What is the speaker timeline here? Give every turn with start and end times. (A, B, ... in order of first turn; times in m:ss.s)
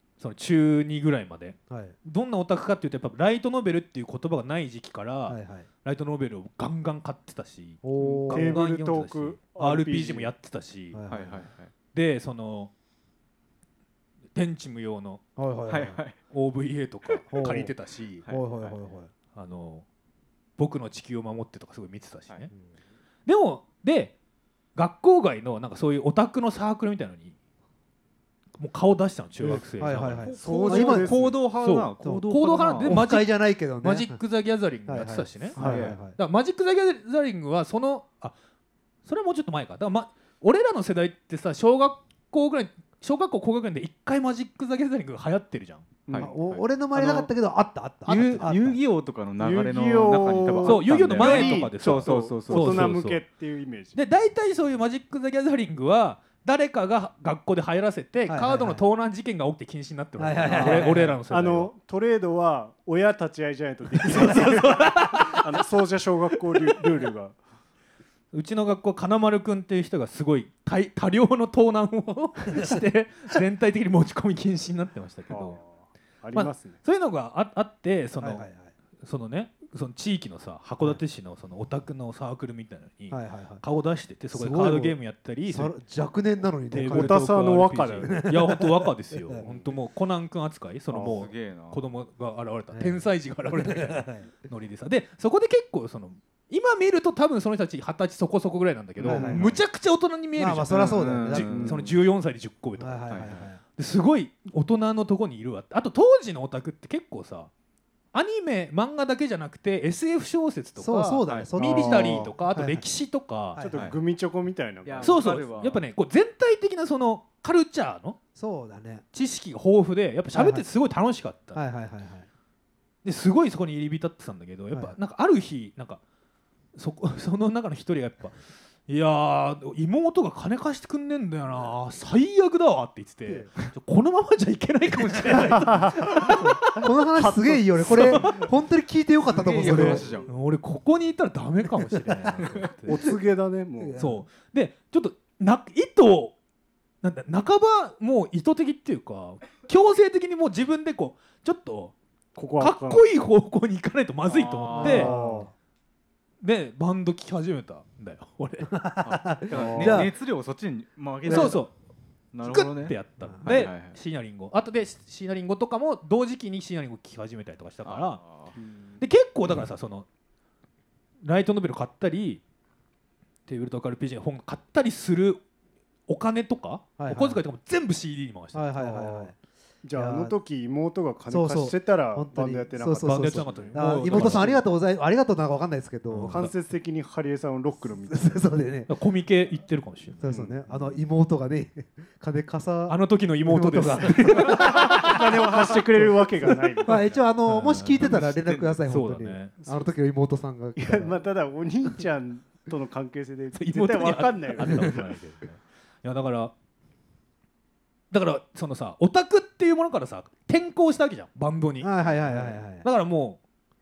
0:00.2-0:11.0 A
0:01.7-0:02.0 B
0:05.2-0:05.7 B
0:07.8-0:08.6 B
0:08.0-0:10.3 C
0:10.9-0:11.4 B
0:11.1-0:11.7 D
0:11.9-0:12.7 A
0:14.3-0:15.2 A
0:15.4-0:16.0 B
0:15.7-0:16.2 D
0:16.3-0:18.2 A
0:17.3-0:17.8 B
0:17.3-0:17.7 D
0:18.2-0:18.8 D
0:18.3-0:19.1 B
0:19.3-0:19.8 A
0:20.6-0:22.5 A
0:23.2-0:24.1 A
0:24.7-0:27.4 A
0:28.6-0:30.3 A
0:29.4-0:31.2 B
0:30.2-0:33.0 D
0:30.4-0:31.4 C
0:31.6-0:38.4 A
0:32.0-0:34.2 B
0:34.8-0:36.2 B
0:35.6-0:36.0 D
0:39.0-0:45.8 A
0:46.1-0:46.3 C
0:46.1-0:47.3 D
0:46.2-0:48.8 B
0:48.0-0:53.0 D
0:49.4-0:54.0 C
0:50.6-0:53.2 A
0:53.9-1:01.7 A
0:58.3-0:58.8 B
1:00.2-1:01.2 B
1:00.4-1:07.4 C
1:04.0-1:05.6 A
1:08.3-1:15.6 A
1:15.3-1:16.8 C
1:16.3-1:18.5 A
1:18.2-1:18.7 B
1:19.0-1:25.7 A
1:23.1-1:23.6 B
1:24.3-1:27.3 B
1:26.7-1:43.1 A
1:26.8-1:28.2 C
1:28.0-1:29.4 B
1:29.4-1:29.7 C
1:30.9-1:31.2 C
1:31.0-1:31.8 D
1:32.7-1:34.3 B
1:39.0-1:39.5 B
1:39.0-1:39.6 D
1:40.4-1:41.8 B
1:40.7-1:42.0 D
1:42.8-1:43.6 B
1:43.1-1:43.5 D
1:43.8-1:47.5 A
1:48.1-1:53.6 A
1:50.8-1:52.9 B
1:51.3-1:51.6 D
1:51.6-1:52.3 C
1:53.5-1:53.9 B
1:53.6-1:55.3 C
1:54.8-1:55.8 D
1:55.0-1:58.2 A
1:58.3-1:59.0 B
1:59.1-2:01.6 A
2:00.3-2:00.6 B
2:01.5-2:02.3 B
2:03.0-2:06.0 A
2:04.7-2:05.0 B
2:06.7-2:16.9 A
2:13.2-2:13.5 B
2:15.6-2:16.4 C
2:16.3-2:20.3 B
2:17.2-2:18.3 C
2:17.8-2:18.5 A
2:19.2-2:20.3 D
2:19.6-2:23.1 A
2:22.8-2:24.0 C
2:23.8-2:24.2 B
2:24.0-2:26.3 A
2:27.0-2:31.9 A
2:32.4-2:33.0 C
2:32.6-2:35.1 A
2:34.2-2:35.1 D
2:34.7-2:35.5 B
2:34.8-2:35.5 C
2:36.4-2:38.8 A
2:38.7-2:40.1 B
2:39.0-2:41.7 D
2:39.5-2:40.0 C
2:41.2-2:41.6 B
2:41.2-2:41.7 A
2:42.3-2:44.0 D
2:42.4-2:48.2 A
2:43.2-2:43.7 B
2:47.8-2:48.6 D
2:48.6-2:49.0 C
2:49.0-2:50.1 A
2:51.2-2:52.4 A
2:53.5-2:55.4 A
2:56.1-2:59.3 A
2:57.0-2:57.4 B
2:58.5-2:59.4 B
2:59.8-3:04.6 C
2:59.9-3:00.4 B
3:01.3-3:06.5 B
3:03.0-3:04.6 A
3:06.1-3:06.5 A
3:06.3-3:08.5 C
3:08.0-3:08.9 B
3:08.9-3:10.3 A
3:10.2-3:14.8 B
3:10.2-3:10.6 C
3:12.9-3:14.7 A
3:14.5-3:17.1 C
3:16.8-3:21.2 B
3:17.5-3:18.3 A
3:17.9-3:18.8 D
3:18.8-3:19.5 A
3:20.8-3:25.0 C
3:23.5-3:26.5 A
3:24.6-3:24.9 B
3:28.1-3:33.4 A
3:31.8-3:32.9 B
3:32.1-3:32.5 C